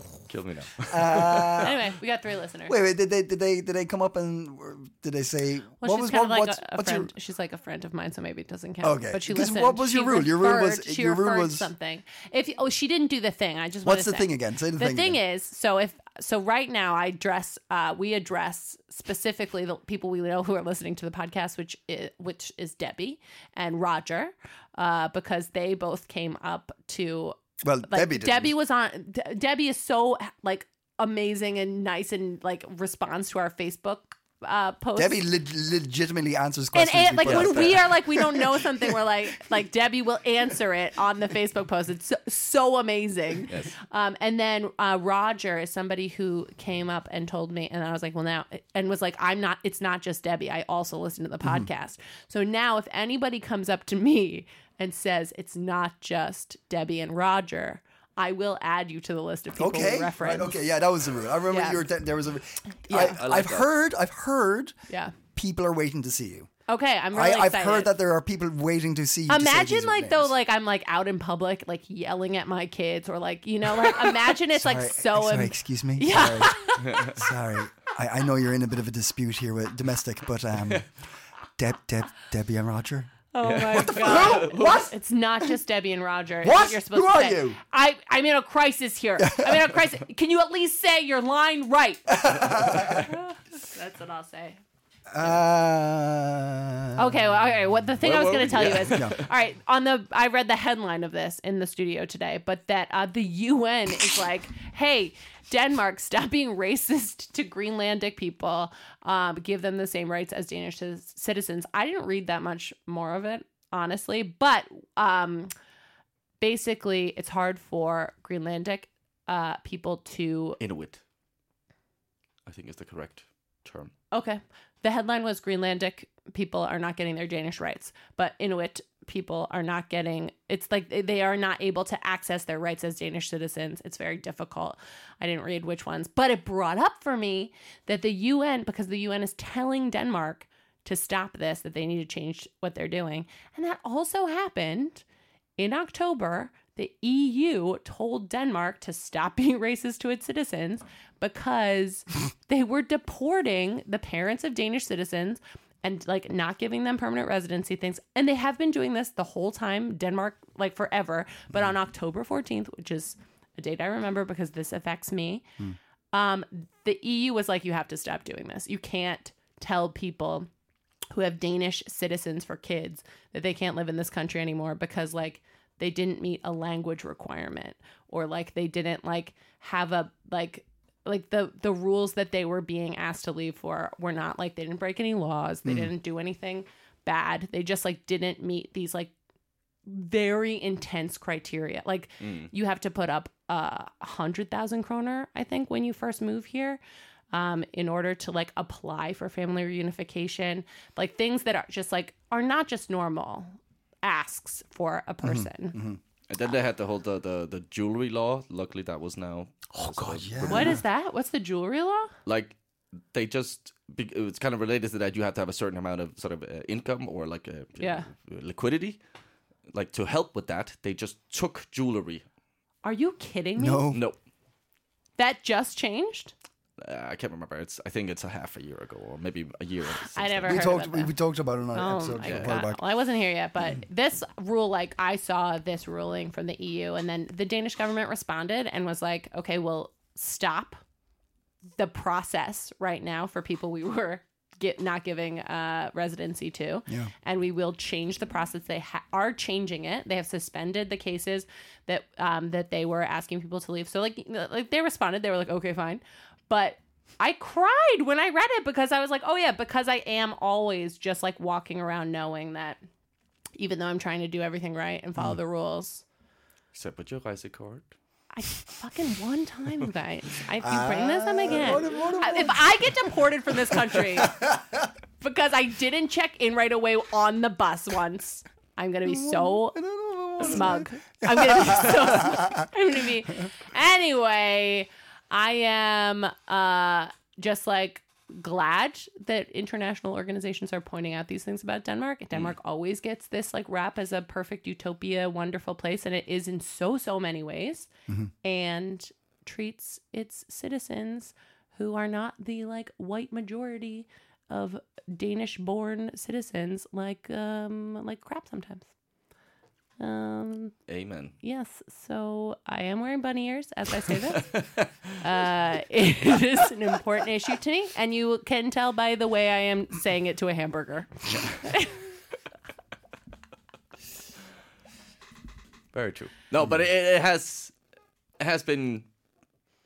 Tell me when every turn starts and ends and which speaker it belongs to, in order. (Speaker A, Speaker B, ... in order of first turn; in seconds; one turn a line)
Speaker A: 0.2-1.7
Speaker B: 0.9-1.8
Speaker C: 1.6-2.8
Speaker B: 2.7-7.1
Speaker C: 5.8-35.2
Speaker B: 8.8-11.7
Speaker B: 13.8-15.2
Speaker B: 27.6-28.5
Speaker B: 35.0-39.0
Speaker C: 36.7-60.5
Speaker A: 37.2-37.9
Speaker B: 59.6-64.7
Speaker C: 61.5-61.9
Speaker C: 62.9-63.2
Speaker A: 62.9-63.7
Speaker C: 64.9-65.1
Speaker B: 65.3-66.5
Speaker C: 66.7-67.9
Speaker B: 67.1-70.3
Speaker C: 69.3-77.1
Speaker B: 74.4-80.9
Speaker A: 76.8-77.2
Speaker B: 81.6-83.1
Speaker C: 83.3-94.6
Speaker A: 83.4-84.8
Speaker B: 83.7-84.9
Speaker B: 86.4-87.6
Speaker B: 89.2-89.7
Speaker B: 92.1-93.1
Speaker B: 95.1-97.2
Speaker C: 97.0-115.5
Speaker A: 98.0-99.3
Speaker B: 98.5-99.2
Speaker C: 116.4-120.6
Speaker A: 120.6-121.0
Speaker A: 122.5-123.9
Speaker C: 124.1-145.0
Speaker C: 145.6-165.5
Speaker C: 166.1-170.5
Speaker C: 171.1-189.1
Speaker B: 185.6-185.9
Speaker C: 189.9-196.8
Speaker A: 192.2-192.5
Speaker C: 197.3-205.8
Speaker B: 205.2-206.0
Speaker A: 206.3-210.8
Speaker B: 209.7-210.8
Speaker C: 210.5-212.1
Speaker A: 212.2-212.5
Speaker A: 213.1-219.0
Speaker C: 217.8-218.1
Speaker A: 219.7-222.2
Speaker C: 222.8-223.9
Speaker B: 223.6-224.0
Speaker A: 223.9-224.2
Speaker C: 225.2-226.3
Speaker A: 226.8-230.7
Speaker C: 230.1-231.1
Speaker B: 230.4-232.8
Speaker C: 231.7-240.8
Speaker A: 232.2-232.5
Speaker C: 241.8-262.8
Speaker C: 263.6-266.0
Speaker A: 266.7-267.9
Speaker C: 268.3-274.4
Speaker B: 270.6-273.1
Speaker B: 273.7-274.9
Speaker C: 275.2-279.8
Speaker B: 279.1-282.7
Speaker C: 280.4-297.9
Speaker C: 298.4-308.9
Speaker C: 310.0-310.7
Speaker A: 310.9-311.3
Speaker C: 311.4-314.5
Speaker A: 314.4-314.9
Speaker C: 315.2-322.0
Speaker A: 325.9-327.7
Speaker A: 328.4-329.1